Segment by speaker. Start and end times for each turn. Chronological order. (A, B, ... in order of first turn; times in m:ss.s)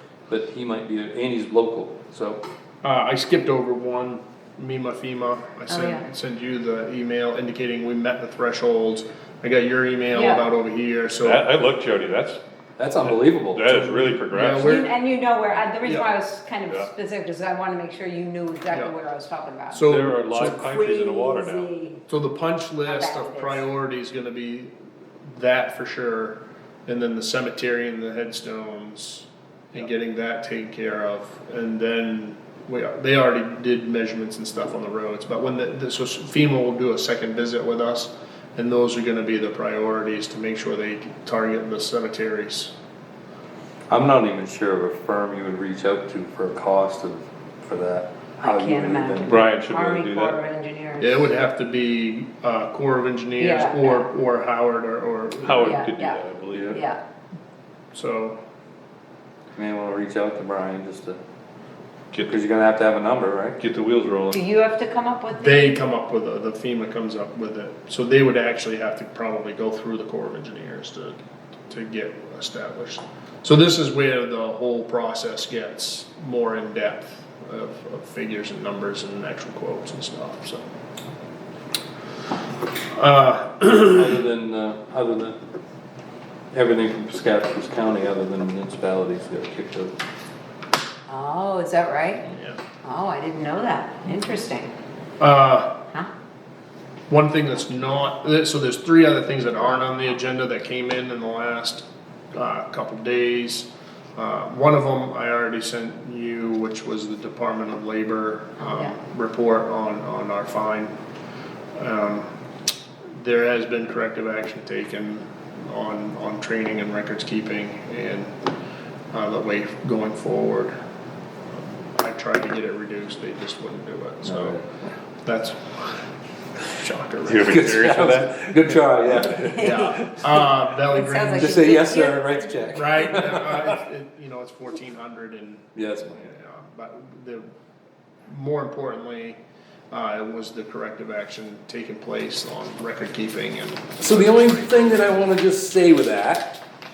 0:00.3-0:02.4 A
0:02.8-0:11.5 B
0:05.7-0:06.1 C
0:10.1-0:10.5 C
0:11.2-0:12.4 D
0:12.8-0:13.9 A
0:13.0-0:14.8 D
0:13.8-0:14.9 B
0:14.6-0:19.8 C
0:15.8-0:16.1 B
0:19.7-0:20.6 B
0:19.9-0:21.7 D
0:20.6-0:22.0 C
0:22.1-0:24.7 B
0:22.8-0:23.6 C
0:25.2-0:42.7 B
0:43.9-0:49.4 A
0:48.4-0:51.3 C
0:49.2-0:50.4 D
0:51.0-0:55.9 B
0:53.4-0:54.1 C
0:55.4-0:56.8 D
0:55.6-0:57.0 C
0:56.5-0:56.8 A
0:57.9-0:58.4 B
0:59.6-1:01.2 A
1:02.2-1:03.6 A
1:03.6-1:04.4 D
1:04.3-1:05.8 C
1:05.3-1:11.2 B
1:11.7-1:20.6 B
1:22.9-1:24.1 B
1:23.9-1:25.4 A
1:26.5-1:29.9 A
1:31.1-1:32.3 C
1:32.3-1:32.6 B
1:32.8-1:34.7 C
1:35.2-1:35.8 B
1:37.1-1:51.0 B
1:51.7-1:52.3 B
1:53.1-1:58.5 B
1:59.1-2:00.7 B
2:01.6-2:04.6 B
2:04.2-2:04.9 A
2:05.2-2:06.1 B
2:06.6-2:07.7 B
2:07.2-2:09.4 D
2:07.4-2:09.8 A
2:09.3-2:10.1 C
2:09.5-2:11.8 B
2:10.9-2:12.7 C
2:11.4-2:13.8 A
2:12.7-2:17.4 B
2:15.7-2:16.1 A
2:18.3-2:19.4 B
2:19.9-2:25.0 B
2:24.0-2:26.6 A